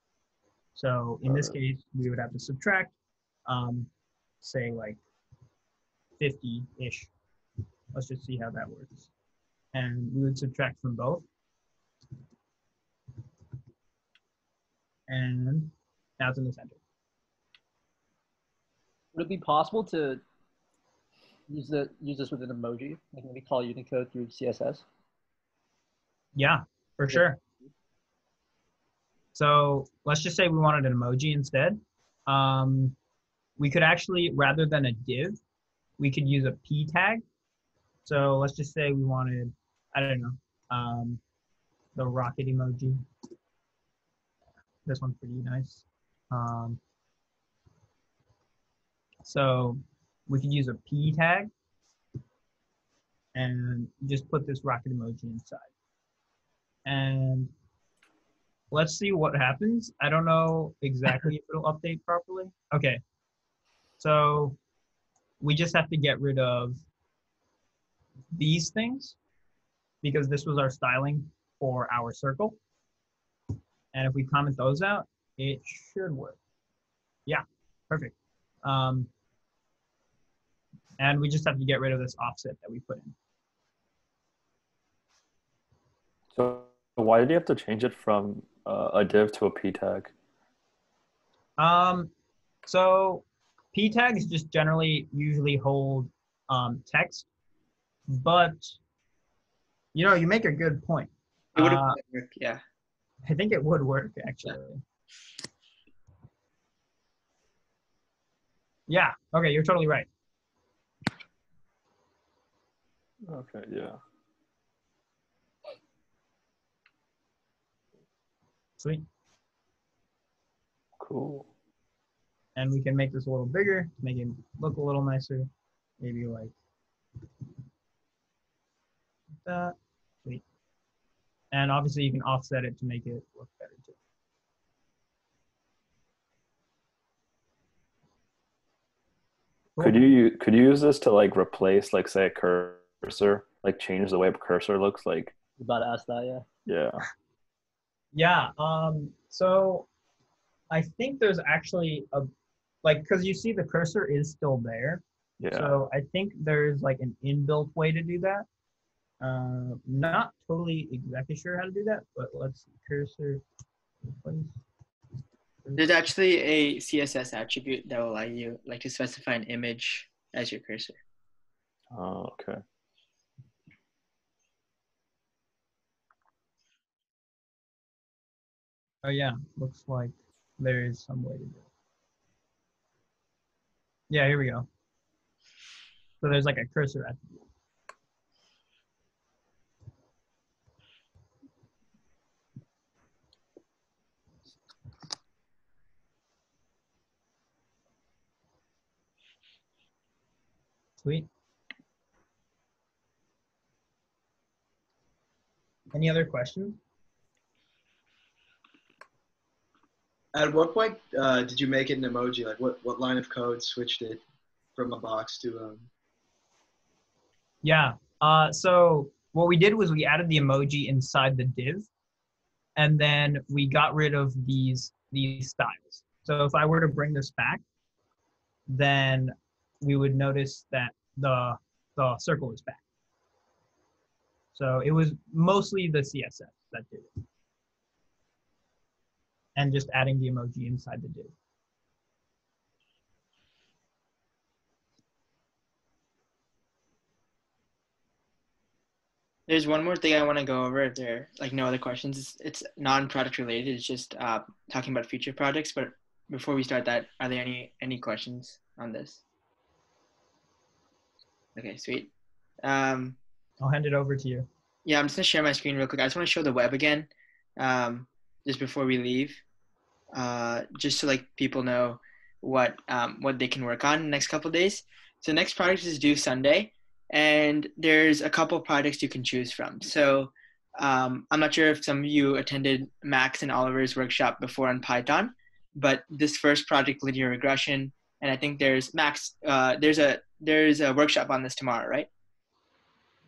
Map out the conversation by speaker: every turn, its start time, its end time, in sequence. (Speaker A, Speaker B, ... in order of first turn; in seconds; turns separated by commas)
Speaker A: 0.7-2.9, Speaker B: 1.2-1.5, Speaker A: 3.5-3.9, Speaker A: 4.4-5.0, Speaker A: 6.2-7.1, Speaker A: 7.9-9.1, Speaker A: 9.7-11.2, Speaker A: 15.1-16.8, Speaker C: 19.1-20.2, Speaker C: 21.5-24.8, Speaker A: 26.4-27.4, Speaker A: 29.3-33.0, Speaker A: 33.6-35.4, Speaker A: 36.0-37.2, Speaker A: 38.0-41.2, Speaker A: 41.9-43.0, Speaker A: 44.9-46.8, Speaker A: 49.2-51.5, Speaker A: 53.3-55.7, Speaker A: 56.9-57.5, Speaker A: 58.7-63.0, Speaker A: 64.0-64.6, Speaker A: 65.4-66.8, Speaker A: 68.3-69.2, Speaker A: 70.0-72.6, Speaker A: 73.9-76.4, Speaker A: 77.3-79.1, Speaker A: 81.0-83.1, Speaker B: 86.3-90.1, Speaker A: 91.6-92.1, Speaker A: 92.6-97.3, Speaker A: 98.1-98.8, Speaker A: 99.9-102.0, Speaker D: 101.5-102.6, Speaker A: 103.2-104.8, Speaker A: 108.9-110.1, Speaker B: 113.2-114.0, Speaker B: 121.0-121.5, Speaker A: 122.5-125.5, Speaker A: 126.0-126.5, Speaker A: 129.4-130.4, Speaker A: 131.5-133.9, Speaker A: 139.8-140.1, Speaker B: 139.8-145.4, Speaker C: 145.6-146.4, Speaker B: 146.7-147.0, Speaker A: 148.1-149.9, Speaker A: 150.7-152.3, Speaker A: 152.8-158.4, Speaker B: 155.4-155.7, Speaker A: 159.2-163.4, Speaker A: 164.1-164.6, Speaker D: 165.8-171.0, Speaker B: 171.9-172.6, Speaker A: 179.0-181.7, Speaker A: 184.1-184.7, Speaker A: 186.2-187.4, Speaker A: 201.0-201.3, Speaker A: 205.9-206.8, Speaker E: 210.3-214.2, Speaker E: 214.8-215.9, Speaker A: 217.6-221.9, Speaker A: 222.8-227.6, Speaker A: 228.7-232.8, Speaker A: 234.5-237.2, Speaker A: 239.6-241.3, Speaker D: 249.5-259.2, Speaker D: 261.6-262.1, Speaker D: 262.6-263.2, Speaker A: 263.6-264.5, Speaker D: 264.8-269.4, Speaker D: 270.1-292.1